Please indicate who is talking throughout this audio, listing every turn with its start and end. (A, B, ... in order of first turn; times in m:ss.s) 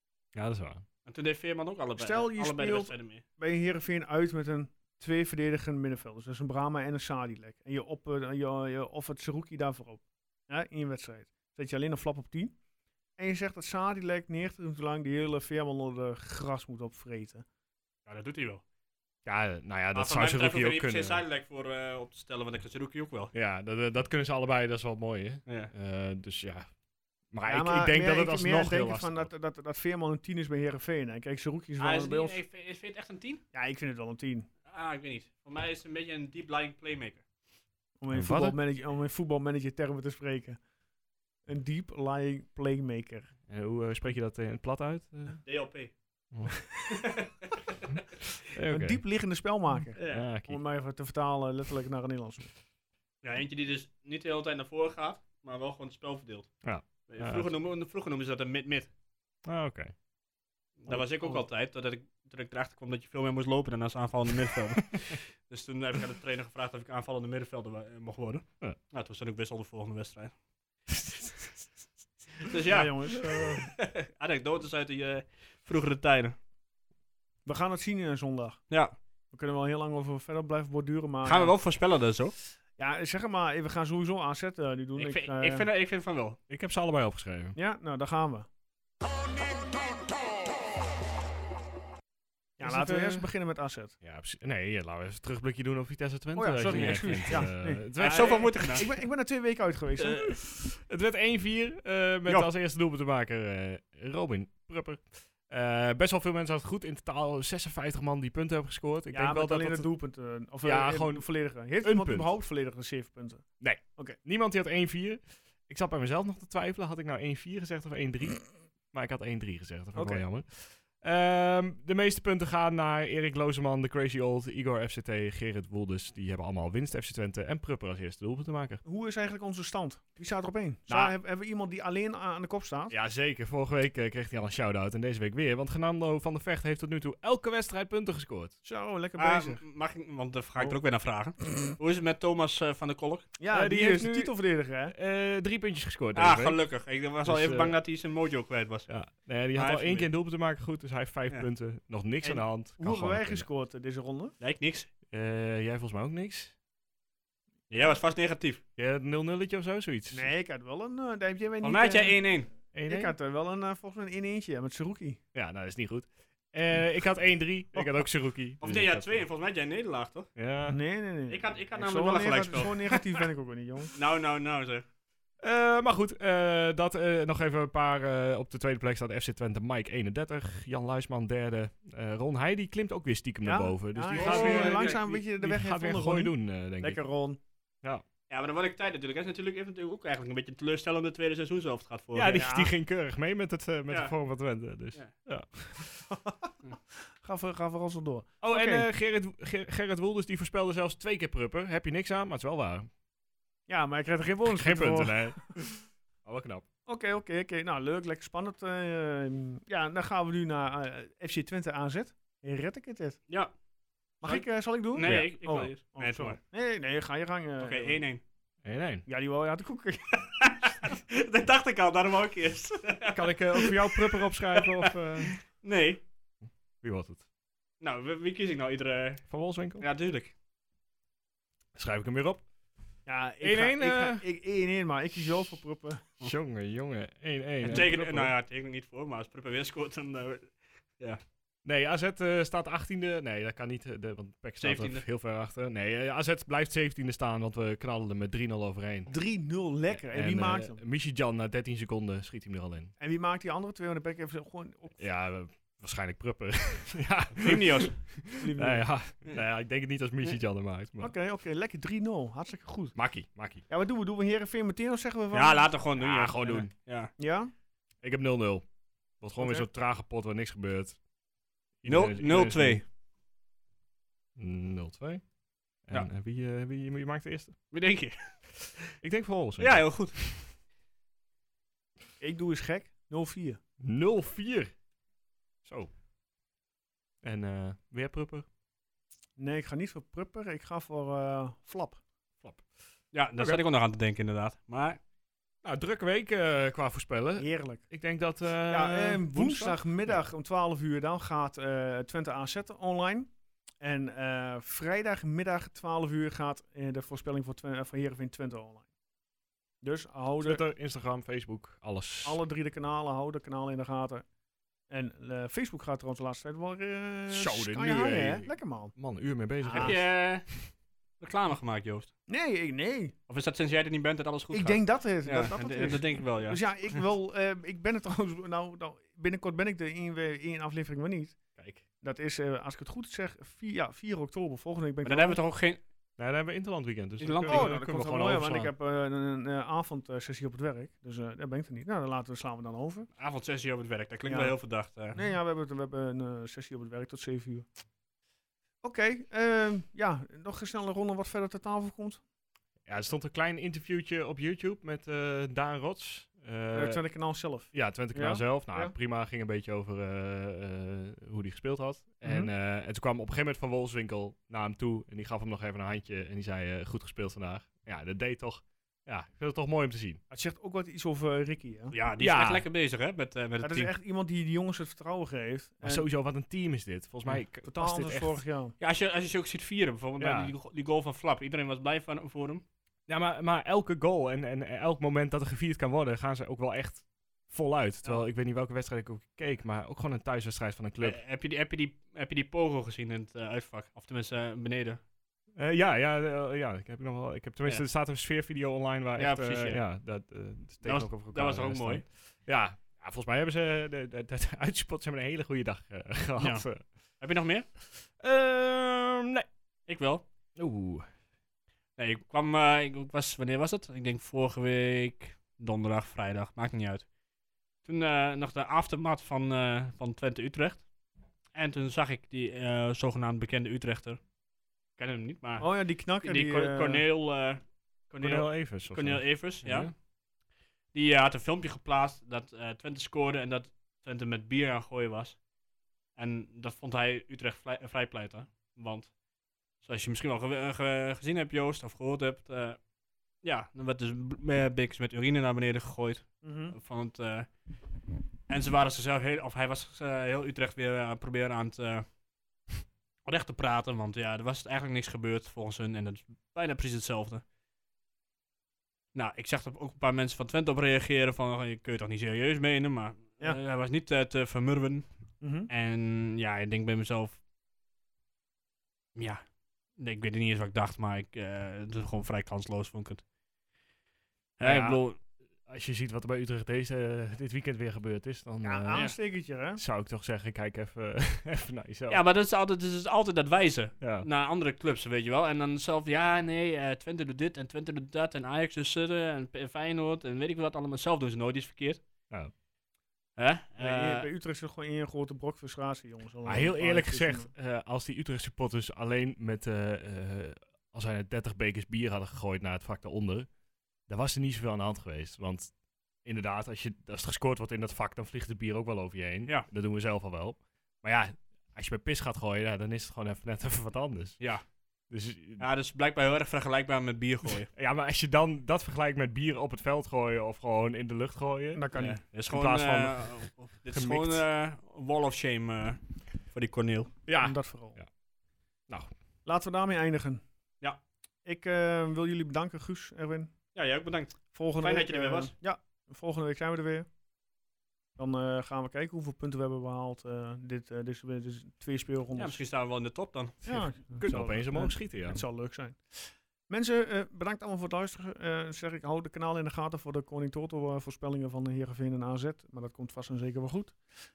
0:00.3-0:00.8 A
0:01.1-0:03.2 B
0:02.0-0:12.6 C
0:13.2-0:17.4 C
0:18.1-0:18.6 B
0:19.2-0:21.2 A
0:19.9-0:23.3 B
0:23.3-0:26.7 A
0:25.5-0:25.7 B
0:27.3-0:29.3 A
0:27.4-0:32.4 C
0:31.8-0:33.4 B
0:33.5-0:34.5 C
0:34.7-0:37.3 B
0:38.0-0:40.6 C
0:38.1-0:38.6 A
0:41.5-0:43.3 C
0:43.5-0:45.4 A
0:45.4-0:45.9 B
0:46.9-0:47.5 B
0:48.5-0:49.0 A
0:48.7-0:52.5 C
0:50.0-0:50.3 B
0:50.0-0:50.6 A
0:53.2-0:56.5 B
0:56.6-0:57.5 A
0:57.0-0:58.9 B
0:59.4-0:59.9 A
1:00.8-1:10.3 B
1:00.9-1:01.4 C
1:10.9-1:11.4 A
1:12.4-1:16.4 B
1:12.7-1:13.7 C
1:17.5-1:18.6 C
1:19.3-1:21.5 C
1:21.2-1:22.3 B
1:22.8-1:25.7 C
1:25.0-1:26.4 B
1:26.5-1:27.6 A
1:27.6-1:28.5 C
1:32.6-1:33.3 A
1:32.6-1:34.0 C
1:34.0-1:38.6 A
1:36.4-1:40.3 C
1:36.7-1:38.9 B
1:40.3-1:49.9 A
1:49.1-1:54.2 C
1:50.6-1:52.3 A
1:53.6-2:08.8 A
2:00.0-2:00.2 C
2:08.8-2:13.0 C
2:10.9-2:11.1 A
2:12.9-2:18.5 A
2:18.6-2:19.6 C
2:19.2-2:23.3 B
2:23.4-2:24.9 C
2:23.5-2:24.3 A
2:24.9-2:26.6 A
2:26.2-2:28.9 B
2:27.2-2:27.8 A
2:28.9-2:33.5 A
2:29.6-2:30.1 B
2:32.8-2:34.4 C
2:34.4-2:34.9 B
2:35.1-2:36.5 A
2:37.7-2:38.6 B
2:38.8-2:40.3 A
2:40.1-2:42.2 C
2:41.6-2:42.5 B
2:42.7-2:43.1 A
2:42.9-2:45.2 C
2:45.3-2:49.1 A
2:48.6-2:50.3 B
2:50.4-2:50.8 A
2:50.7-2:53.9 C
2:51.3-2:53.2 B
2:54.0-2:54.8 B
2:55.4-3:07.0 A
3:03.4-3:07.4 C
3:04.2-3:05.0 B
3:08.3-3:12.4 B
3:12.1-3:16.0 A
3:12.3-3:12.7 C
3:13.9-3:14.1 B
3:16.1-3:16.5 C
3:17.2-3:18.9 C
3:18.4-3:22.9 A
3:23.7-3:25.5 C
3:24.4-3:26.7 A
3:26.9-3:33.2 C
3:34.2-3:38.0 C
3:34.2-3:36.4 B
3:35.0-3:35.7 A
3:37.6-3:38.2 B
3:38.6-3:39.0 A
3:39.1-3:40.2 C
3:40.4-3:46.0 B
3:43.1-3:45.4 A
3:46.8-3:47.2 A
3:47.8-3:49.2 B
3:49.3-3:49.8 A
3:49.8-3:50.3 B
3:51.8-3:52.4 A
3:53.1-3:56.2 C
3:53.4-3:54.2 A
3:56.2-3:58.3 A
3:57.6-4:01.2 B
3:57.7-3:58.1 C
4:01.6-4:09.1 A
4:04.6-4:05.0 B
4:09.1-4:10.8 C
4:10.1-4:12.9 A
4:13.0-4:15.0 C
4:15.0-4:21.1 A
4:17.4-4:18.2 B
4:18.4-4:18.9 C
4:21.0-4:23.0 C
4:23.0-4:23.6 A
4:23.7-4:25.7 C
4:25.3-4:27.1 B
4:26.0-4:26.7 A
4:27.2-4:27.5 C
4:28.0-4:28.7 A
4:29.2-4:31.0 A
4:29.4-4:29.7 C
4:31.8-4:32.8 A
4:31.9-4:32.8 B
4:34.4-4:35.2 A
4:35.8-4:37.6 A
4:37.7-4:38.4 B
4:39.0-4:40.0 A
4:39.6-4:40.4 B
4:42.2-4:43.6 C
4:43.8-4:44.7 A
4:45.6-4:45.9 A
4:47.2-4:48.5 A
4:49.4-4:52.0 C
4:53.1-4:55.0 B
4:55.6-5:00.2 A
4:57.4-4:57.8 C
4:58.7-5:03.3 C
5:03.8-5:08.9 C
5:09.8-5:10.6 C
5:10.4-5:12.4 A
5:12.2-5:14.2 C
5:14.9-5:18.9 C
5:17.3-5:20.3 A
5:19.6-5:20.0 C
5:19.8-5:20.5 B
5:21.2-5:22.1 B
5:22.3-5:23.1 C
5:23.3-5:27.0 B
5:24.5-5:31.4 C
5:31.6-5:31.8 A
5:32.0-5:35.4 C
5:35.0-5:35.8 B
5:36.2-5:38.7 A
5:37.2-5:37.7 B
5:37.5-5:43.1 C
5:43.2-5:45.2 B
5:44.3-5:44.6 C
5:45.1-5:47.7 C
5:48.8-5:52.2 C
5:52.9-5:57.0 A
5:56.7-5:58.9 C
5:57.7-6:10.2 A
6:02.2-6:02.5 C
6:10.3-6:11.9 C
6:11.9-6:13.9 B
6:12.2-6:12.7 A
6:13.6-6:16.1 C
6:15.8-6:18.4 A
6:17.6-6:18.8 C
6:18.8-6:22.6 B
6:20.2-6:20.5 A
6:23.1-6:31.2 A
6:31.0-6:35.0 B
6:35.6-6:46.8 A
6:39.2-6:39.8 B
6:40.8-6:42.0 B
6:46.4-6:46.7 B
6:47.2-6:47.7 B
6:47.9-6:49.5 A
6:49.9-6:50.2 B
6:50.6-6:51.1 A
6:52.0-6:57.1 B
6:57.8-7:00.9 B
7:01.5-7:04.2 B
7:05.0-7:09.9 B
7:05.6-7:07.0 C
7:08.2-7:09.9 A
7:10.9-7:15.4 B
7:16.2-7:19.1 B
7:19.8-7:22.8 B
7:23.4-7:27.7 B
7:26.4-7:26.8 C
7:28.5-7:32.0 B
7:33.2-7:37.4 B
7:39.1-7:45.1 B
7:45.4-7:45.7 C
7:45.7-7:47.4 B
7:49.2-7:49.4 B
7:50.0-7:53.2 B
7:54.6-7:55.2 B
7:54.6-7:55.0 A
7:55.7-7:59.1 A
7:58.6-7:59.8 C
7:59.8-8:02.2 A
8:02.1-8:12.0 B
8:04.0-8:04.3 A
8:13.4-8:14.3 B
8:13.8-8:17.5 C
8:16.4-8:23.5 A
8:24.1-8:34.4 A
8:34.4-8:34.6 B
8:35.1-8:35.6 A
8:35.6-8:37.7 B
8:37.7-8:44.4 A
8:41.7-8:42.2 C
8:41.9-8:47.1 B
8:47.3-8:48.1 A
8:47.4-8:48.0 C
8:49.4-8:50.4 C
8:51.4-8:53.5 C
8:53.8-8:55.5 B
8:54.5-8:57.1 C
8:58.2-9:02.6 C
9:02.4-9:03.6 B
9:03.6-9:05.4 A
9:03.6-9:14.0 C